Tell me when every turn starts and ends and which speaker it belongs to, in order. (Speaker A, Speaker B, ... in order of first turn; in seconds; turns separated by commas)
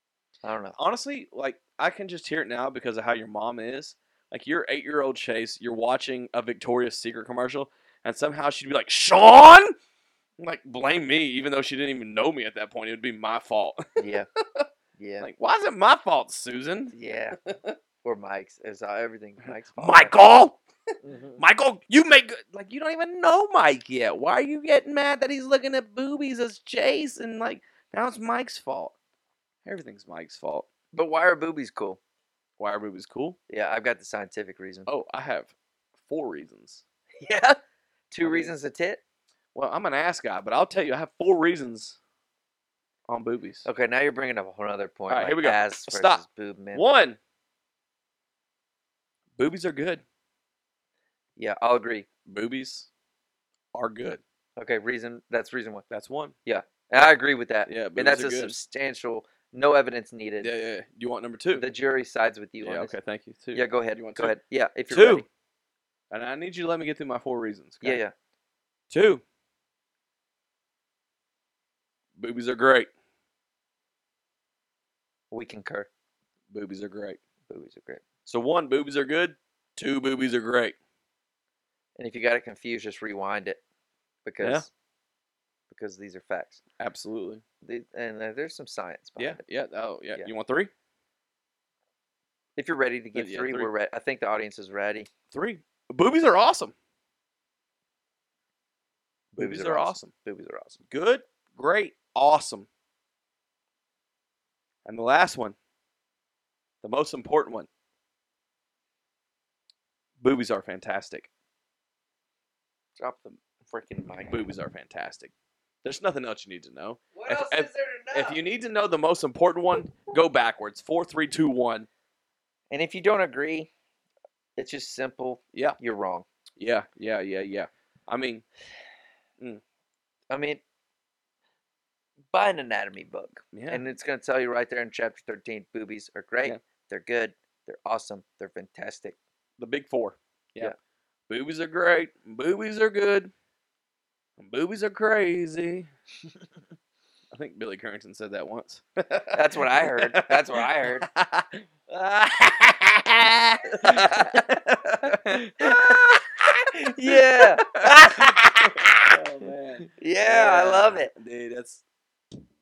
Speaker A: 0.4-0.8, Speaker B: 0.8-9.8, Speaker B: 10.4-13.9, Speaker A: 14.0-14.3, Speaker A: 15.0-15.3, Speaker B: 15.2-17.8, Speaker A: 16.9-17.4, Speaker A: 18.0-20.2, Speaker B: 19.4-20.6, Speaker A: 21.0-21.4, Speaker B: 21.4-28.9, Speaker B: 29.6-30.7, Speaker A: 30.9-32.0, Speaker B: 32.6-33.4, Speaker A: 33.5-34.9, Speaker B: 34.9-36.8, Speaker A: 37.2-37.6, Speaker A: 38.1-39.0, Speaker B: 38.2-38.5, Speaker B: 39.5-42.0, Speaker B: 43.1-43.7, Speaker A: 43.6-46.8, Speaker B: 45.1-46.2, Speaker B: 46.7-47.2, Speaker B: 49.4-50.0, Speaker A: 51.4-52.1, Speaker B: 52.3-52.9, Speaker B: 53.7-54.2, Speaker A: 54.6-55.9, Speaker B: 55.9-56.4, Speaker A: 56.5-60.5, Speaker B: 57.7-58.6, Speaker B: 60.4-61.6, Speaker A: 61.5-63.0, Speaker B: 62.6-64.3, Speaker A: 63.5-65.3, Speaker B: 64.9-65.3, Speaker B: 66.1-68.0, Speaker A: 67.8-68.1, Speaker B: 68.9-69.2, Speaker B: 72.2-72.9, Speaker A: 75.3-75.9, Speaker B: 76.5-77.2, Speaker A: 77.5-78.0, Speaker B: 78.3-80.8, Speaker A: 82.0-83.6, Speaker A: 84.3-84.7, Speaker B: 84.4-84.7, Speaker A: 85.7-86.6, Speaker B: 86.8-87.4, Speaker A: 87.6-89.4, Speaker B: 89.2-90.7, Speaker A: 92.6-95.1, Speaker B: 93.2-93.7, Speaker B: 95.3-96.7, Speaker B: 99.3-100.1, Speaker A: 99.4-100.8, Speaker B: 100.9-102.7, Speaker B: 104.8-105.6, Speaker B: 106.8-107.7, Speaker B: 110.2-111.3, Speaker A: 113.0-114.4, Speaker B: 114.3-115.3, Speaker B: 115.8-121.9, Speaker A: 117.1-118.4, Speaker A: 122.7-123.7, Speaker A: 124.6-126.3, Speaker B: 125.5-125.8, Speaker B: 126.6-128.5, Speaker A: 130.3-130.6, Speaker A: 132.3-139.2, Speaker B: 133.5-133.8, Speaker B: 139.6-140.7, Speaker B: 141.3-143.3, Speaker B: 144.4-145.9, Speaker B: 147.3-161.8, Speaker A: 149.3-151.1, Speaker A: 153.8-154.4, Speaker A: 155.0-156.1, Speaker A: 156.8-159.2, Speaker A: 159.9-161.1